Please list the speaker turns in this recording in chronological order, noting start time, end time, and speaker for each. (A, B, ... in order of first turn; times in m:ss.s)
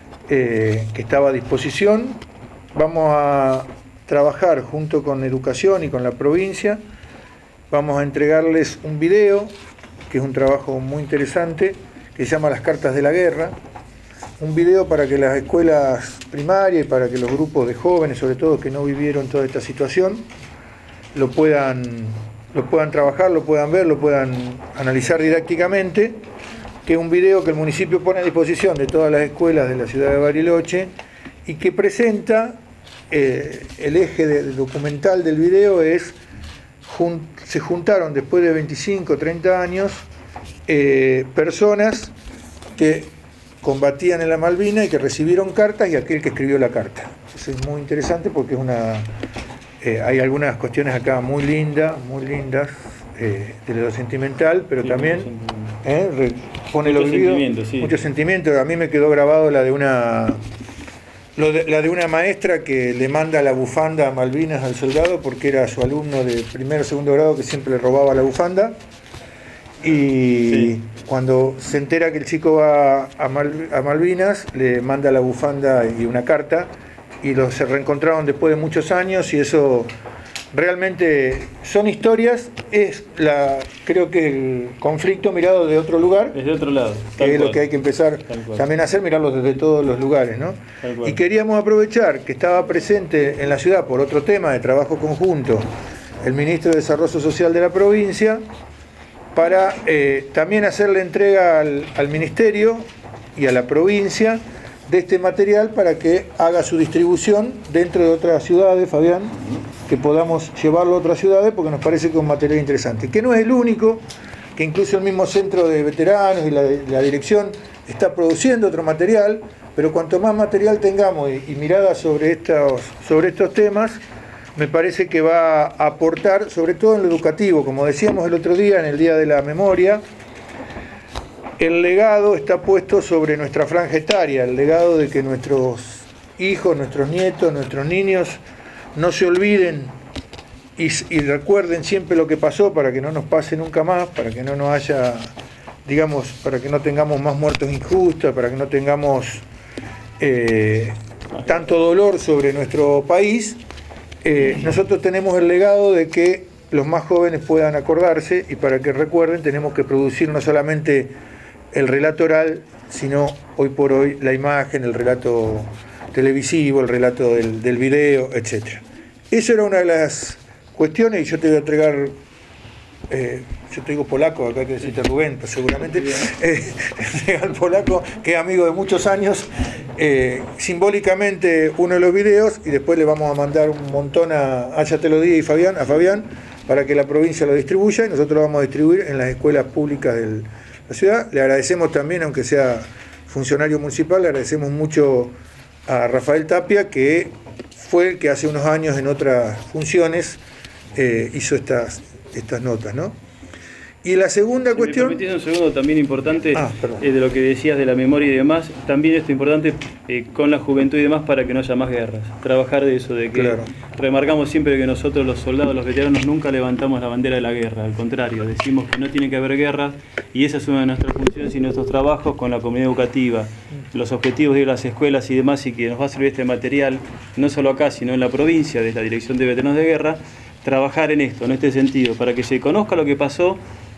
0:00.3-0:02.2 A
0:02.7-0:06.8 A
0:07.7-0:09.5 A
0:10.1-0:13.6 A
0:14.4-0:20.2 A
0:21.1-0:26.2 A
0:26.8-0:30.9 A
0:31.4-0:32.6 A
0:33.1-0:36.2 A
0:36.8-0:40.0 A
0:40.7-0:42.1 A
0:42.8-0:43.1 A
0:43.6-0:49.1 A
0:49.8-0:55.3 A
0:54.8-0:55.7 B
0:55.8-1:00.4 A
0:56.8-0:58.0 B
1:01.4-1:08.8 A
1:09.8-1:16.7 A
1:10.5-1:10.7 B
1:17.2-1:19.9 A
1:20.5-1:26.4 A
1:26.3-1:27.6 B
1:27.2-1:35.7 A
1:28.3-1:28.7 B
1:30.8-1:31.2 B
1:36.2-1:38.4 A
1:39.3-1:54.0 A
1:54.6-2:04.0 A
2:04.6-2:10.0 A
2:11.6-2:18.4 A
2:18.9-2:19.9 A
2:20.8-2:25.3 A
2:25.8-2:29.4 A
2:30.2-2:33.6 A
2:34.2-2:41.1 A
2:41.7-2:52.1 A
2:53.1-3:15.3 A
3:15.9-3:20.4 A
3:20.9-3:23.1 A
3:24.0-3:25.2 A
3:24.7-3:53.6 B
3:26.5-3:27.0 A
3:33.3-3:33.7 A